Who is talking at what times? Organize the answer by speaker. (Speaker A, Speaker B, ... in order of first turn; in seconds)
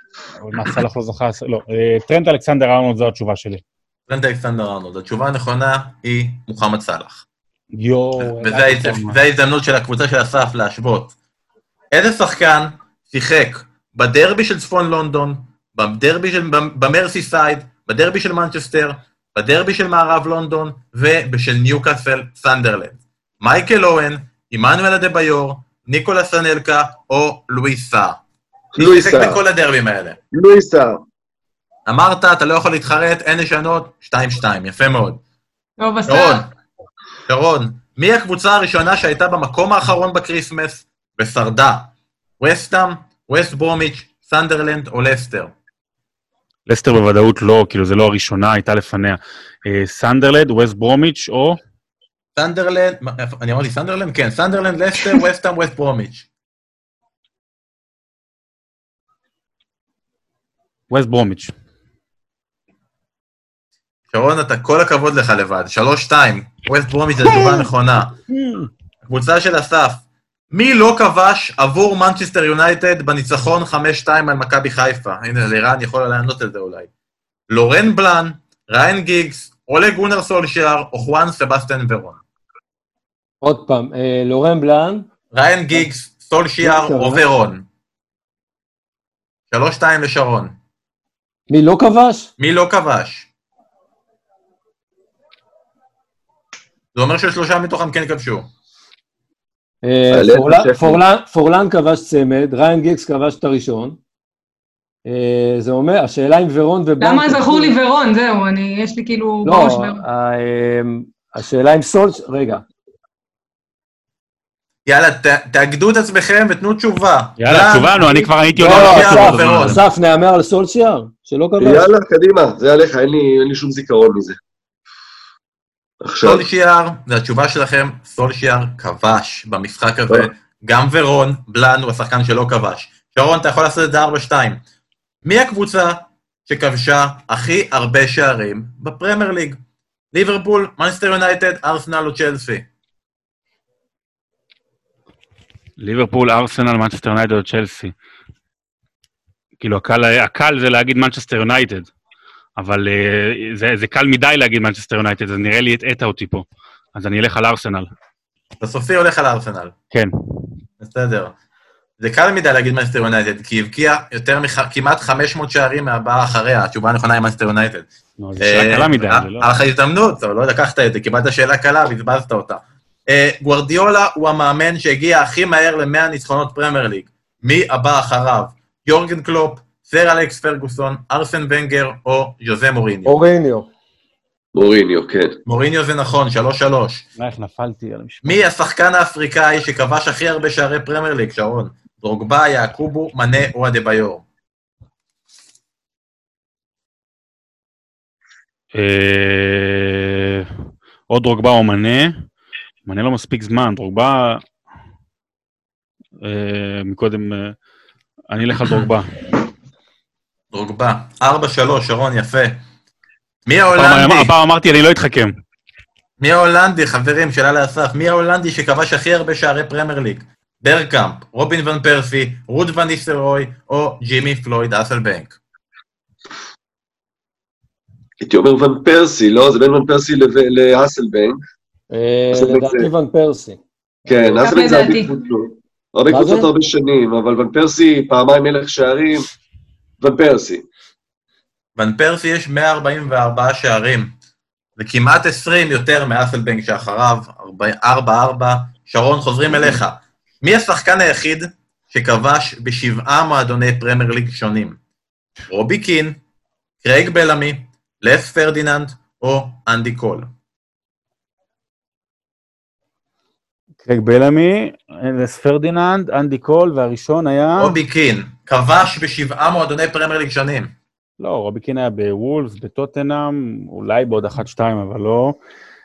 Speaker A: 0.4-3.6, 7.7-9.2, 46.7-51.6, 60.9-61.5, 67.2-67.7, 68.3-68.7, 117.4-119.8, 145.8-147.9, 149.6-151.9, 152.6-157.9, 168.2-169.5, 187.2-188.4, 198.7-200.5, 201.1-202.2, 202.9-204.4, 206.2-207.6, 208.3-209.1, 213.8-215.3, 263.8-267.8, 271.2-275.4
Speaker B: 4.1-7.2, 8.2-11.2, 11.9-28.2, 28.8-30.2, 31.9-35.2, 36.1-36.5, 37.3-45.5, 52.4-56.3, 64.1-68.2, 69.0-76.9, 77.5-82.2, 85.3-87.7, 89.5-90.5, 92.4-93.3, 96.9-98.5, 114.9-118.0, 118.6-119.8, 126.2-134.6, 135.2-139.6, 140.1-142.7, 158.6-159.7, 160.8-161.3, 162.0-167.9, 168.4-183.2, 185.5-187.1, 188.2-194.2, 210.5-212.6, 213.5-214.3, 216.2-225.4, 241.8-244.1, 244.8-254.8, 255.5-256.2, 256.8-260.3, 267.6-270.7
Speaker C: 28.8-29.4, 30.3-31.0, 100.1-101.0, 121.6-124.4, 126.0-126.5, 184.6-185.4, 228.2-231.4, 232.3-232.9, 234.1-239.3, 240.0-240.7
Speaker D: 35.8-36.5, 107.0-110.0, 234.4-235.2
Speaker E: 83.4-85.1, 86.6-87.2, 91.5-92.3, 99.8-104.0, 105.1-107.8, 109.5-112.7, 118.5-121.9, 183.1-183.7, 231.9-234.3, 236.1-236.5